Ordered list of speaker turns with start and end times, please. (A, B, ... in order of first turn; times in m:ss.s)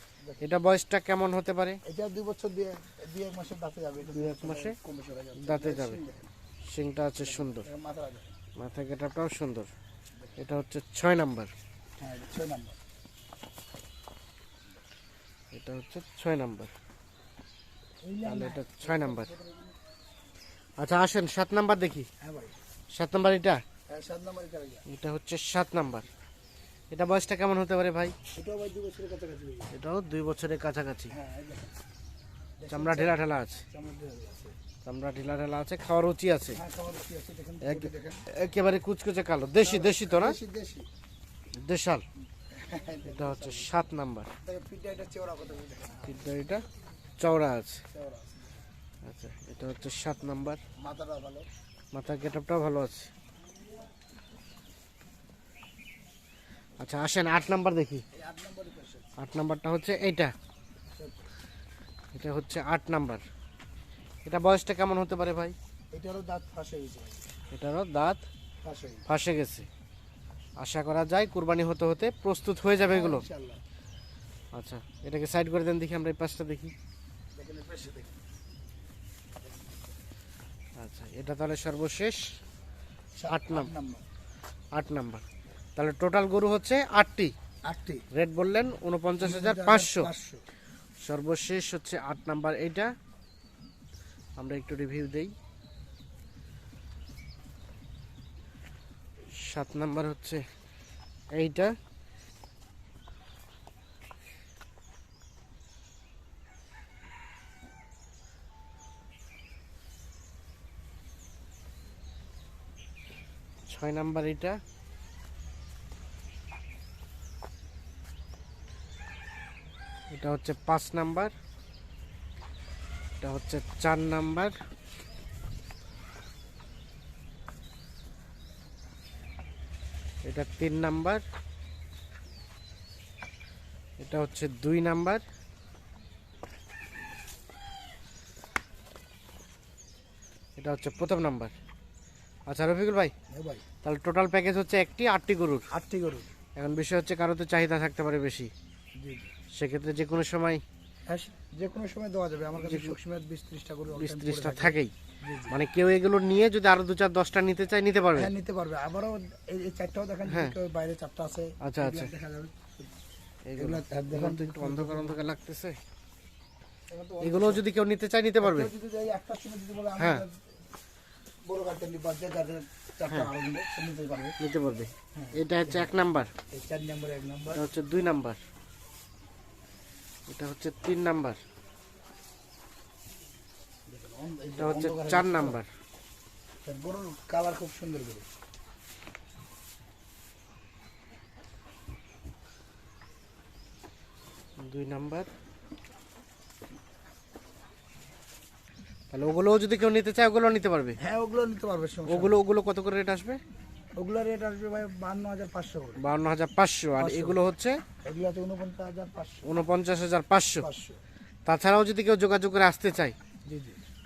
0:00.4-0:01.8 A
0:01.8-0:06.3 B
0:04.1-0:04.8 A
0:05.4-0:06.0 A
0:06.6-0:07.7 A
0:07.2-0:08.3 B
0:08.6-0:09.7 A
0:10.4-0:11.5 A
0:12.0-0:12.8 B
0:15.5-0:16.7 A
0:18.0-0:19.8 B
0:18.2-0:19.3 A
0:20.8-0:22.1 A
0:22.2-0:22.6 B
0:22.9-0:23.6 A
0:23.9-0:24.8 B
0:24.9-0:26.1 A
0:26.9-0:28.1 A
0:28.3-0:29.7 B
0:29.7-0:31.1 A
0:31.1-0:31.7 B
0:32.6-0:34.6 B
0:32.7-0:33.6 A
0:34.8-0:36.6 A
0:36.5-0:38.2 B
0:37.6-0:40.4 A
0:39.6-0:40.8 B
0:41.6-0:42.0 A
0:42.5-0:43.7 B
0:43.1-0:44.3 A
0:44.4-0:46.2 B
0:46.0-0:46.6 A
0:47.2-0:47.8 A
0:47.9-0:48.6 B
0:49.0-0:50.6 A
0:50.8-0:51.5 B
0:51.9-0:53.1 A
0:56.8-0:58.0 A
0:58.1-0:59.1 B
0:59.2-1:00.3 A
1:00.9-1:01.2 B
1:02.1-1:03.2 A
1:04.2-1:05.5 A
1:05.9-1:07.2 B
1:07.5-1:08.2 A
1:08.6-1:09.1 B
1:09.1-1:09.7 A
1:10.6-1:13.2 A
1:12.8-1:13.6 B
1:14.5-1:16.7 A
1:17.3-1:18.2 B
1:20.8-1:22.2 A
1:23.2-1:24.0 B
1:23.3-1:23.7 A
1:24.7-1:25.2 A
1:25.8-1:27.3 A
1:27.7-1:28.0 B
1:28.1-1:30.1 A
1:29.2-1:30.4 B
1:31.0-1:32.9 A
1:34.4-1:35.3 A
1:39.3-1:40.4 A
1:41.3-1:41.7 A
1:53.7-1:54.6 A
2:00.1-2:01.3 A
2:03.2-2:04.5 A
2:10.2-2:11.2 A
2:14.0-2:15.2 A
2:20.6-2:21.5 A
2:22.5-2:23.1 A
2:23.3-2:23.6 B
2:23.8-2:25.7 A
2:25.7-2:26.3 B
2:26.6-2:28.5 A
2:29.0-2:29.3 B
2:29.5-2:30.6 A
2:31.1-2:35.6 B
2:32.6-2:32.9 A
2:33.9-2:34.9 A
2:35.5-2:38.3 A
2:38.1-2:42.9 B
2:40.3-2:40.6 A
2:41.6-2:42.1 A
2:43.4-2:45.8 A
2:43.6-2:45.2 B
2:46.9-2:47.6 B
2:47.2-2:48.7 A
2:48.4-2:50.4 B
2:50.0-2:50.2 A
2:51.4-2:54.4 B
2:54.4-2:56.3 A
2:55.1-2:55.9 B
2:56.5-2:57.6 B
2:57.5-2:58.4 A
3:00.3-3:01.4 A
3:03.9-3:05.6 B
3:04.6-3:05.7 A
3:06.6-3:08.2 B
3:14.6-3:15.3 A
3:19.1-3:21.0 A
3:21.0-3:22.4 B
3:22.1-3:23.4 A
3:24.0-3:26.0 B
3:26.0-3:27.8 A
3:27.0-3:27.5 B
3:28.0-3:29.6 B
3:29.4-3:30.7 A
3:30.6-3:31.0 B
3:31.4-3:33.2 A
3:33.4-3:33.8 B